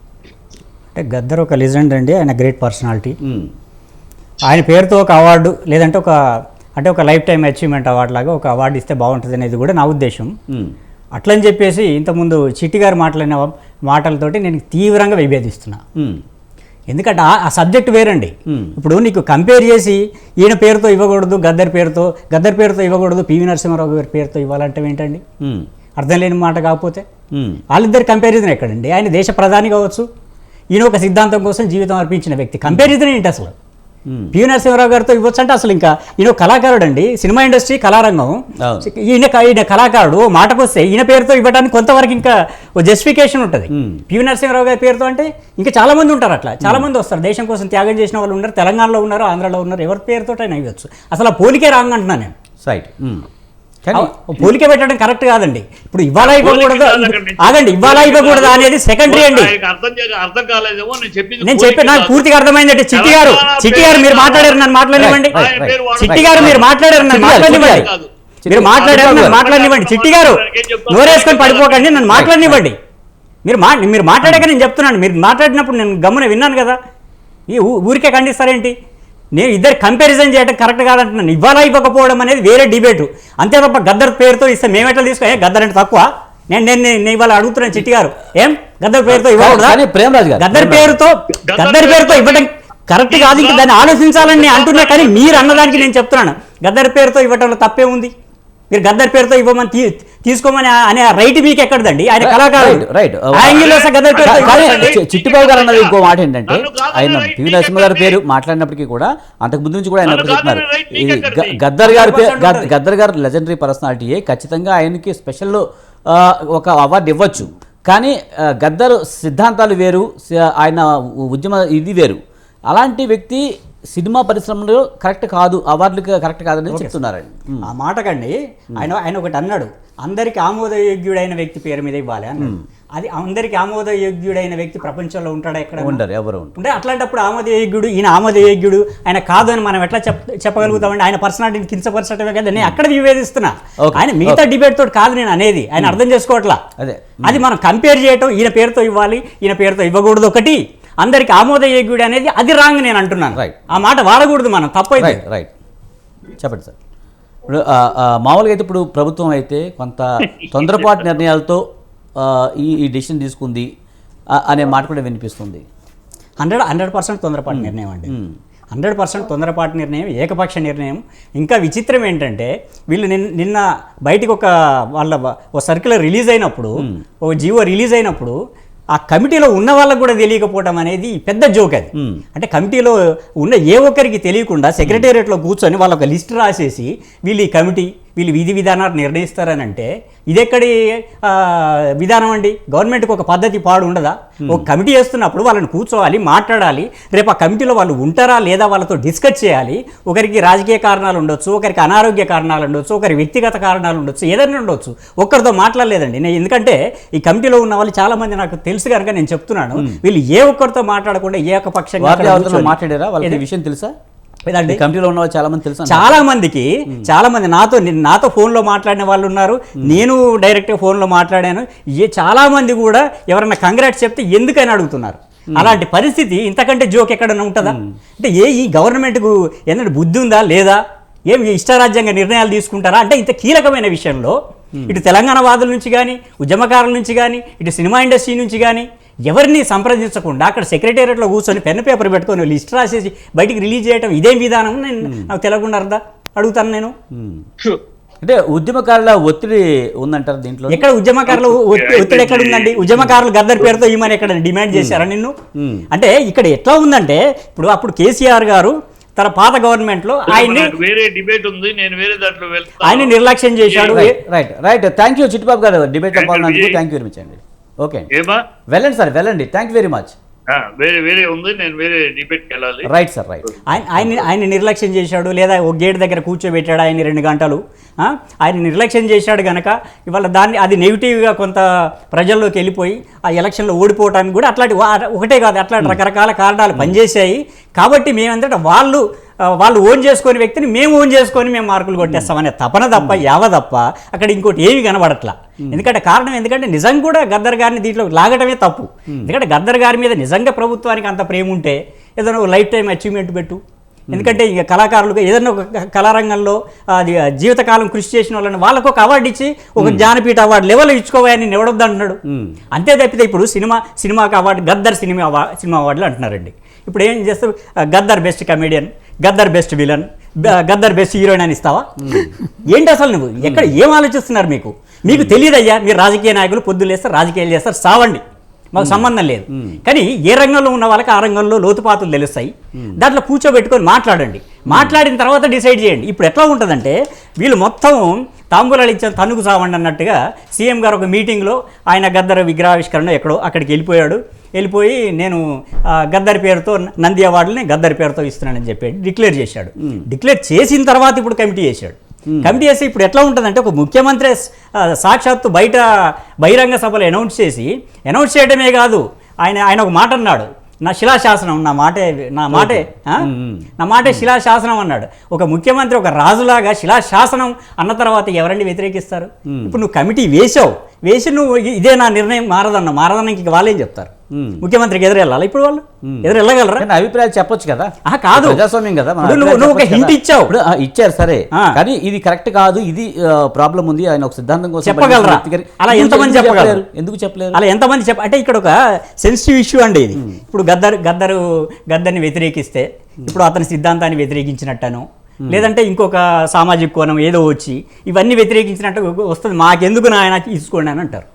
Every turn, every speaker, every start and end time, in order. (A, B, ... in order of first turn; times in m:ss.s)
0:00.9-0:03.2 A
0:03.2-0:03.5 B
0:04.4-0:06.2 A
0:06.8-0:10.4 A
0:11.2-0:15.8 A
0:16.9-0:25.2 A
0:18.5-0:18.7 B
0:26.0-0:27.0 A
0:27.3-0:27.6 B
0:27.7-0:30.0 A
0:30.7-0:33.5 A
0:32.7-0:32.9 B
0:34.1-0:34.3 B
0:34.3-0:52.3 A
0:38.6-0:38.9 B
0:43.7-0:44.0 B
0:46.6-0:46.9 B
0:52.6-0:53.2 B
0:53.8-0:54.3 B
0:53.9-0:59.5 A
0:56.2-1:02.3 C
1:01.4-1:05.4 A
1:02.9-1:08.1 C
1:05.0-1:07.9 B
1:06.0-1:07.9 A
1:08.4-1:09.4 B
1:08.5-1:12.8 A
1:08.6-1:12.3 C
1:12.1-1:12.6 B
1:13.4-1:16.8 A
1:17.5-1:18.7 A
1:19.3-1:29.8 A
1:29.1-1:31.0 B
1:30.4-1:38.1 A
1:31.4-1:32.5 C
1:33.1-1:35.9 C
1:38.7-1:45.0 A
1:42.2-2:07.7 B
1:43.4-1:48.2 C
1:50.0-1:51.6 C
1:51.8-1:52.7 A
2:06.7-2:07.0 A
2:07.6-2:16.0 A
2:15.8-2:16.6 B
2:16.6-2:26.6 A
2:20.6-2:20.9 B
2:23.8-2:24.4 B
2:26.8-2:27.4 B
2:27.2-2:35.2 A
2:33.3-2:33.6 B
2:35.0-2:35.5 B
2:36.4-2:36.7 B
2:37.5-2:41.6 B
2:42.2-2:43.7 B
2:44.4-2:45.6 B
2:46.4-2:48.1 A
2:47.5-2:48.4 B
2:48.7-2:58.3 A
2:59.0-3:33.4 A
3:32.0-3:34.0 B
3:34.5-3:34.8 A
3:34.6-3:36.2 B
3:35.8-4:06.9 A
3:47.6-3:48.0 B
4:05.0-4:05.3 B
4:07.1-4:07.4 B
4:08.2-4:10.8 B
4:10.7-4:15.3 A
4:11.4-4:12.8 C
4:12.9-4:13.2 B
4:14.7-4:15.0 B
4:15.6-4:15.8 B
4:15.9-4:20.7 A
4:20.3-4:23.1 C
4:22.8-4:24.2 A
4:23.6-4:24.0 C
4:23.9-4:28.1 B
4:26.1-4:26.8 C
4:28.1-4:28.4 C
4:28.7-4:30.1 B
4:30.5-4:32.9 C
4:32.8-4:34.2 B
4:33.7-5:03.6 A
4:52.0-4:52.3 B
4:53.0-4:53.2 B
5:04.1-5:04.4 B
5:04.1-5:12.2 A
5:09.8-5:10.1 B
5:12.3-5:12.5 B
5:12.7-5:28.2 A
5:23.4-5:23.7 B
5:25.1-5:25.4 B
5:28.7-5:55.8 A
5:28.8-5:29.8 B
5:34.7-5:35.0 B
5:52.3-5:52.6 B
5:56.4-6:03.2 A
6:02.5-6:04.3 B
6:03.8-6:14.1 A
6:09.5-6:09.8 B
6:14.3-6:14.6 B
6:14.6-6:16.9 A
6:16.0-6:27.6 B
6:18.1-6:18.6 A
6:19.2-6:20.5 A
6:24.8-6:26.8 A
6:27.5-6:41.3 A